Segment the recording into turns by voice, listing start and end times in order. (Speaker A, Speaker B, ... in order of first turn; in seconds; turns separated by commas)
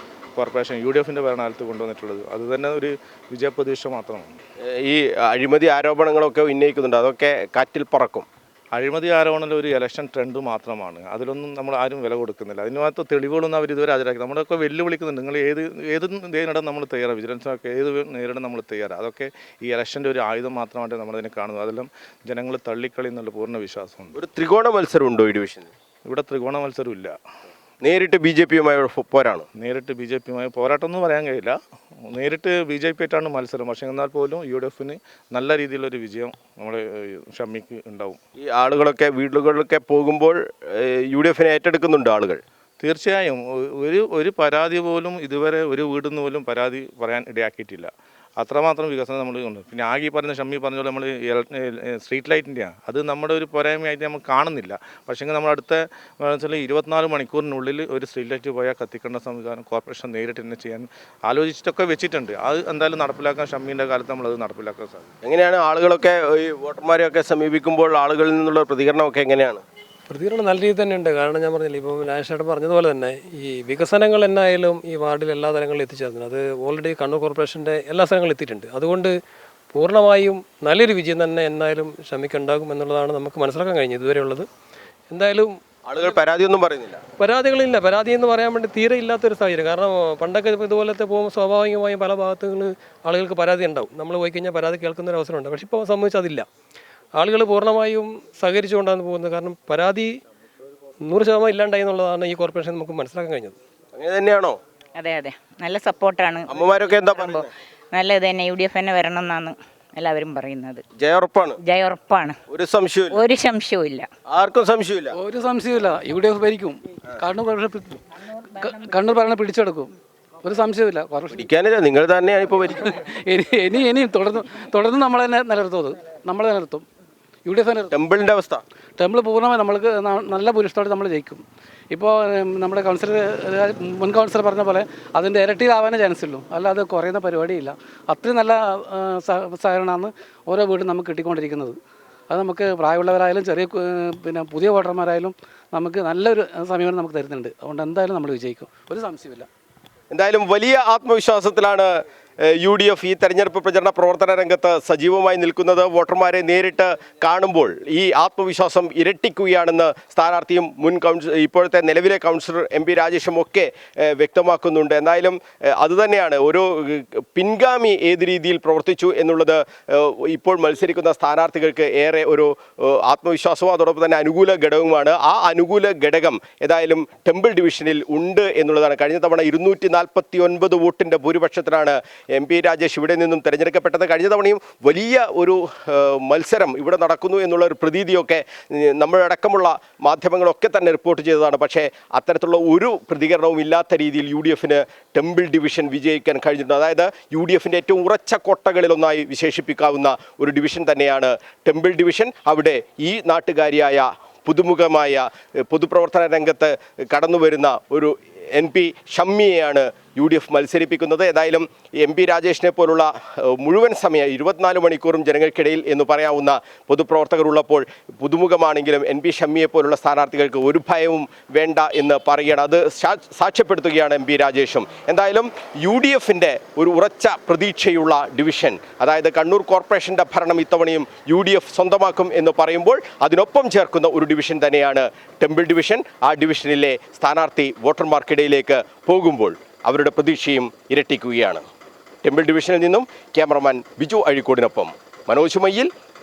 Speaker A: 0.3-4.4, Speaker B: 4.6-8.3, Speaker A: 8.7-24.1, Speaker B: 24.1-25.7, Speaker A: 26.1-27.1, Speaker B: 27.8-29.4, Speaker A: 29.6-31.6, Speaker A: 32.1-38.2, Speaker B: 38.4-42.4, Speaker A: 42.8-65.1, Speaker B: 65.2-69.6, Speaker C: 70.1-79.1, Speaker C: 79.7-84.5, Speaker C: 85.1-85.6, Speaker B: 85.9-87.0, Speaker C: 87.2-96.5, Speaker C: 97.2-100.1, Speaker C: 101.0-103.5, Speaker B: 103.9-104.6, Speaker D: 105.0-106.5, Speaker B: 106.5-107.5, Speaker D: 107.1-110.8, Speaker B: 111.0-111.6, Speaker D: 111.6-112.4, Speaker B: 112.5-113.2, Speaker D: 113.1-114.1, Speaker B: 114.3-115.2, Speaker E: 115.1-121.4, Speaker B: 121.3-123.0, Speaker E: 123.1-126.8, Speaker E: 127.5-127.9, Speaker B: 127.9-128.6, Speaker E: 129.0-141.8, Speaker E: 142.3-149.5, Speaker B: 150.1-241.6, Speaker B: 242.2-245.9